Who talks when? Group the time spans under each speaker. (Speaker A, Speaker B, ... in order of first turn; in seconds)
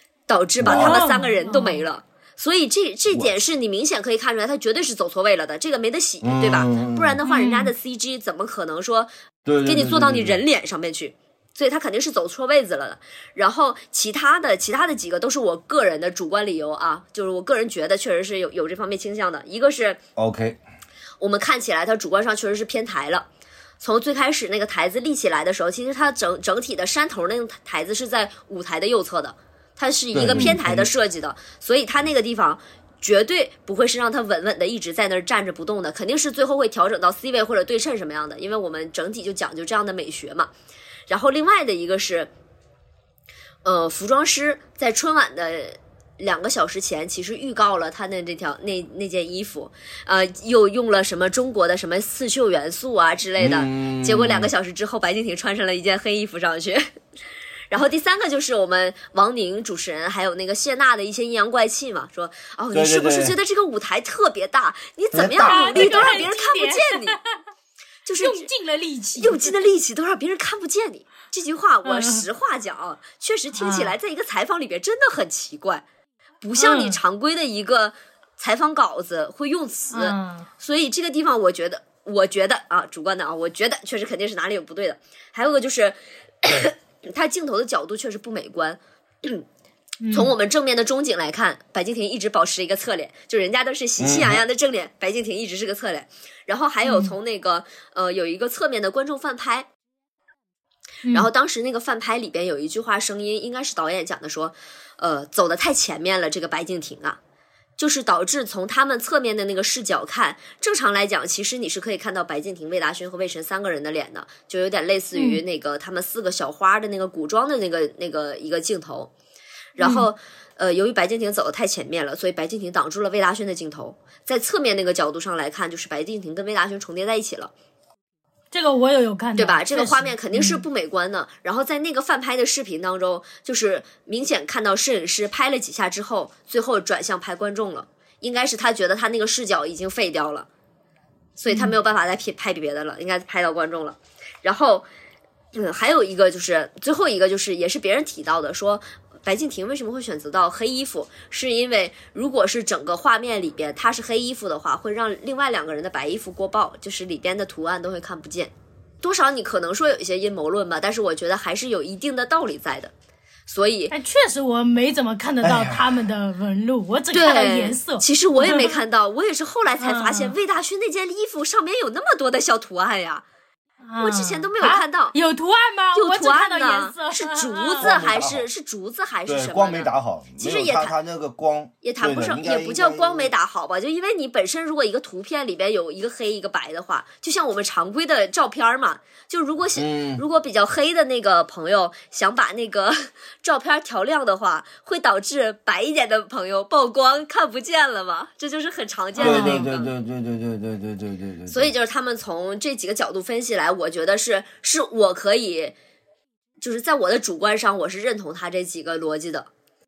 Speaker A: 0.3-9.1, 9.7-20.0, 21.2-23.3, 23.8-40.5, 41.1-42.3, 43.6-56.9, 57.7-67.2, 68.0-68.5, 69.2-75.8, 76.4-89.5, 90.1-99.7, 101.1-107.2, 107.8-119.1, 119.8-127.5, 129.4-140.5, 141.4-144.9, 145.5-162.9, 163.5-163.9, 167.1-173.2, 174.0-175.2, 175.9-180.9, 181.8-199.9, 201.5-205.8, 206.6-209.5
Speaker B: 0.6-1.0, 6.2-7.2, 9.4-10.4, 20.2-20.6, 30.1-30.9, 53.4-54.5, 62.7-63.4, 65.1-66.2, 94.0-94.4, 165.4-166.0, 177.8-178.5, 179.3-183.3, 189.8-190.2, 199.2-201.7
Speaker C: 0.7-1.9, 7.2-7.7, 65.4-67.2, 68.2-69.5, 71.8-72.3, 73.5-74.0, 76.6-77.0, 79.9-80.5, 90.0-90.3, 96.8-97.2, 115.2-115.4, 119.8-120.1, 128.5-130.6, 141.5-141.8, 163.9-168.8, 169.8-170.4, 173.9-178.0, 199.2-199.7